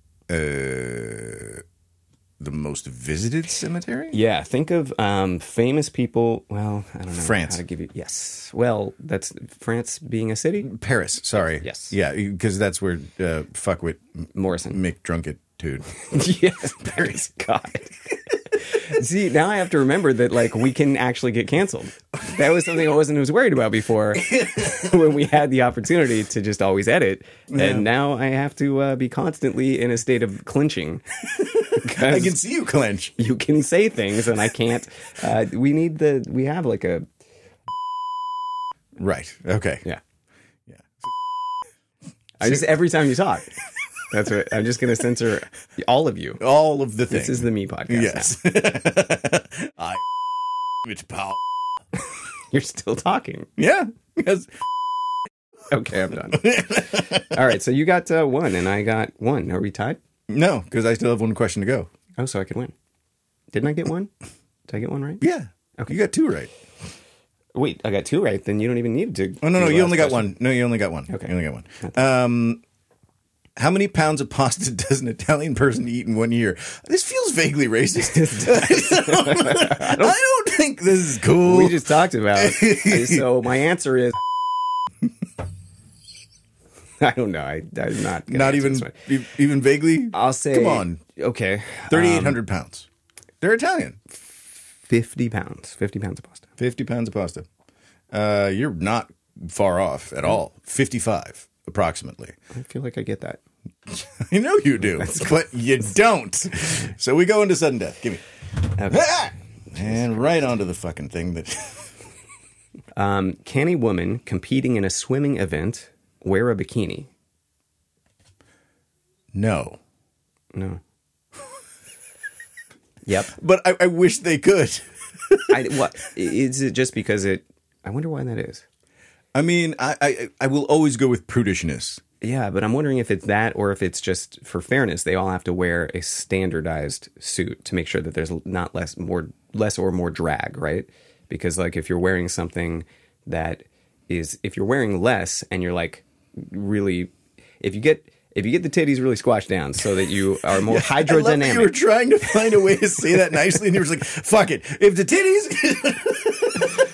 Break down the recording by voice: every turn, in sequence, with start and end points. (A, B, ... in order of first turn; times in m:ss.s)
0:00.3-0:01.6 A
0:02.4-0:04.2 A
0:04.1-0:10.7 B
0:07.2-0:07.6 A
0:10.6-0:14.0 A
0:11.6-0:12.0 B
0:14.4-0:14.8 B
0:14.7-0:15.9 A
0:15.9-0:32.4 B
0:24.2-0:24.8 A
0:27.5-0:27.9 A
0:31.8-0:33.1 A
0:33.2-0:37.0 B
0:39.0-0:39.8 A
0:40.7-0:41.1 A
0:42.4-0:43.5 B
0:42.4-0:42.7 A
0:44.1-0:46.4 B
0:46.4-0:50.0 A
0:47.1-0:48.4 B
0:50.8-0:51.4 A
0:52.5-0:53.5 B
0:53.6-0:54.5 A
0:55.7-1:00.0 B
0:56.4-0:57.4 A
1:00.3-1:01.9 A
1:02.2-1:02.7 B
1:03.5-1:04.1 B
1:04.7-1:05.2 B
1:05.2-1:06.5 A
1:07.6-1:10.4 B
1:09.4-1:12.6 A
1:13.6-1:21.8 A
1:18.0-1:20.2 B
1:21.4-1:24.2 B
1:22.4-1:23.3 A
1:27.0-1:28.9 B
1:28.3-1:31.0 A
1:30.1-1:32.4 B
1:31.9-1:32.9 A
1:33.4-1:34.0 A
1:34.9-1:36.5 B
1:36.6-1:37.4 A
1:38.1-1:42.4 A
1:42.5-1:43.4 B
1:43.9-1:48.2 A
1:44.9-1:45.3 B
1:48.8-1:49.2 B
1:48.9-1:51.9 A
1:49.7-1:50.5 B
1:53.0-1:57.1 B
1:59.3-1:59.8 A
2:00.5-2:00.8 B
2:03.1-2:03.4 B
2:03.3-2:05.6 A
2:05.5-2:08.6 B
2:09.3-2:12.0 A
2:12.2-2:31.8 B
2:30.5-2:36.7 A
2:32.5-2:33.5 B